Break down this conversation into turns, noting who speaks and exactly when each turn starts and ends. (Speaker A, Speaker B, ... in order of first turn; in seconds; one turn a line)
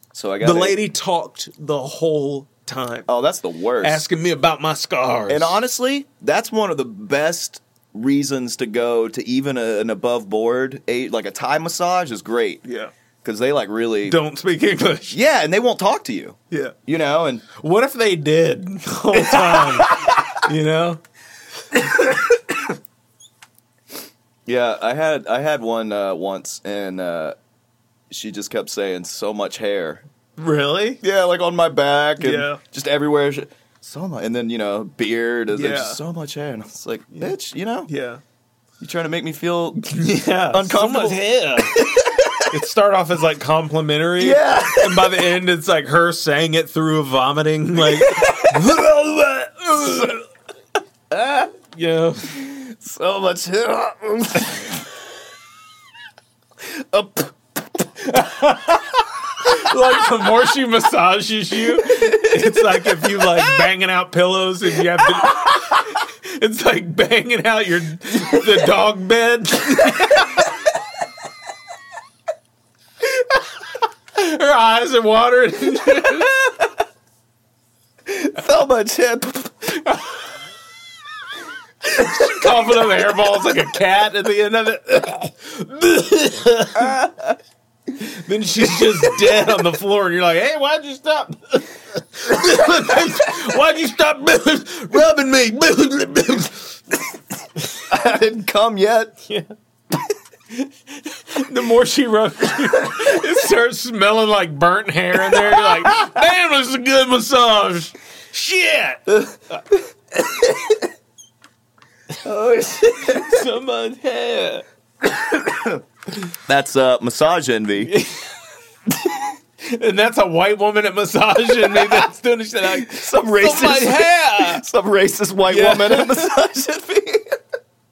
Speaker A: 0.1-0.8
Speaker B: 0.4-3.1
Speaker A: 3.1-4.1
Speaker B: 3.8-5.6
Speaker A: 5.3-12.6
Speaker B: 12.6-12.9
Speaker A: 13.2-14.2
Speaker B: 14.1-15.2
Speaker A: 15.1-17.4
Speaker B: 17.6-21.0
Speaker A: 19.1-20.2
Speaker A: 24.4-27.4
Speaker A: 28.1-30.1
Speaker B: 30.4-31.0
Speaker A: 31.0-37.9
Speaker B: 32.2-32.6
Speaker B: 35.5-36.0
Speaker B: 37.9-38.2
Speaker A: 38.8-40.0
Speaker B: 39.9-41.8
Speaker A: 40.5-41.2
Speaker A: 41.7-42.4
Speaker B: 42.5-50.1
Speaker A: 44.2-45.2
Speaker A: 47.8-48.8
Speaker A: 49.7-50.2
Speaker A: 51.1-51.5
Speaker B: 51.7-52.4
Speaker A: 52.3-54.9
Speaker A: 56.6-57.8
Speaker B: 58.0-70.4
Speaker A: 61.9-62.4
Speaker B: 73.1-76.4
Speaker A: 78.0-79.9
Speaker B: 81.8-87.0
Speaker A: 86.8-87.4
Speaker B: 88.0-96.8
Speaker A: 97.9-99.2
Speaker B: 99.2-99.5
Speaker B: 100.5-109.6
Speaker A: 105.3-105.9
Speaker A: 109.1-110.8
Speaker A: 112.2-113.5
Speaker B: 113.1-114.6
Speaker A: 116.5-117.9
Speaker B: 117.8-118.2
Speaker B: 119.6-124.6
Speaker A: 122.6-127.4
Speaker B: 125.5-126.3